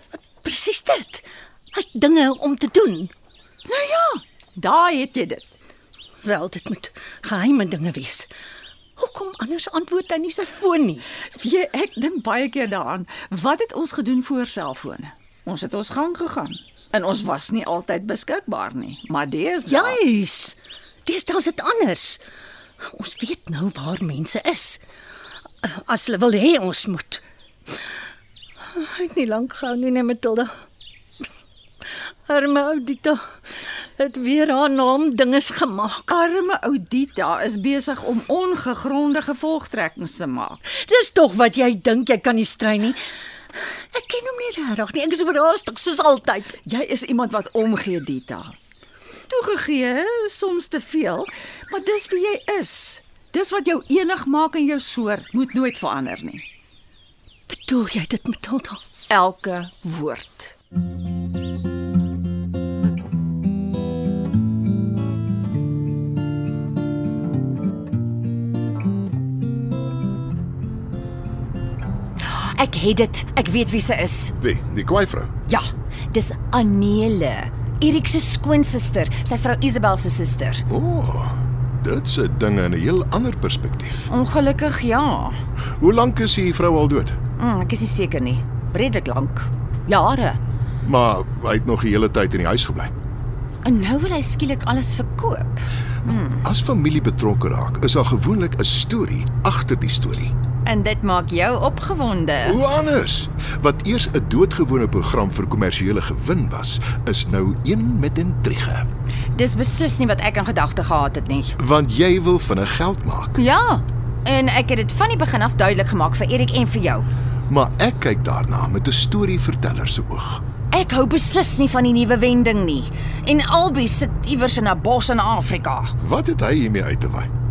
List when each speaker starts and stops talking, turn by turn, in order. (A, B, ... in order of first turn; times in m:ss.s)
0:00.2-0:03.1 A
0:03.7-0:05.4 B
0:06.2-0:08.3 A
0:09.0-0:11.0 A
0:11.4-0:20.0 B
0:19.7-0:22.2 A
0:22.8-0:24.8 A
0:25.6-0:27.2 A
0:28.7-0:30.5 A
0:32.2-0:36.1 A
0:36.1-0:40.6 B
0:40.7-0:43.0 A
0:43.9-0:46.6 A
0:46.6-0:48.6 B
0:49.3-0:56.4 B
0:57.5-0:58.8 A
0:59.1-1:00.5 B
1:12.2-1:14.3 C
1:14.4-1:15.3 D
1:15.5-1:20.6 C
1:20.7-1:24.1 D
1:24.1-1:25.4 C
1:25.8-1:27.2 D
1:27.4-1:30.4 C
1:30.8-1:32.9 D
1:33.6-1:36.4 C
1:36.3-1:40.3 D
1:40.6-1:42.6 C
1:42.4-1:48.9 D
1:49.4-1:51.6 C
1:51.6-1:53.4 D
1:53.4-1:57.1 C
1:57.5-2:00.4 D
2:00.7-2:05.9 C
2:06.0-2:07.3 D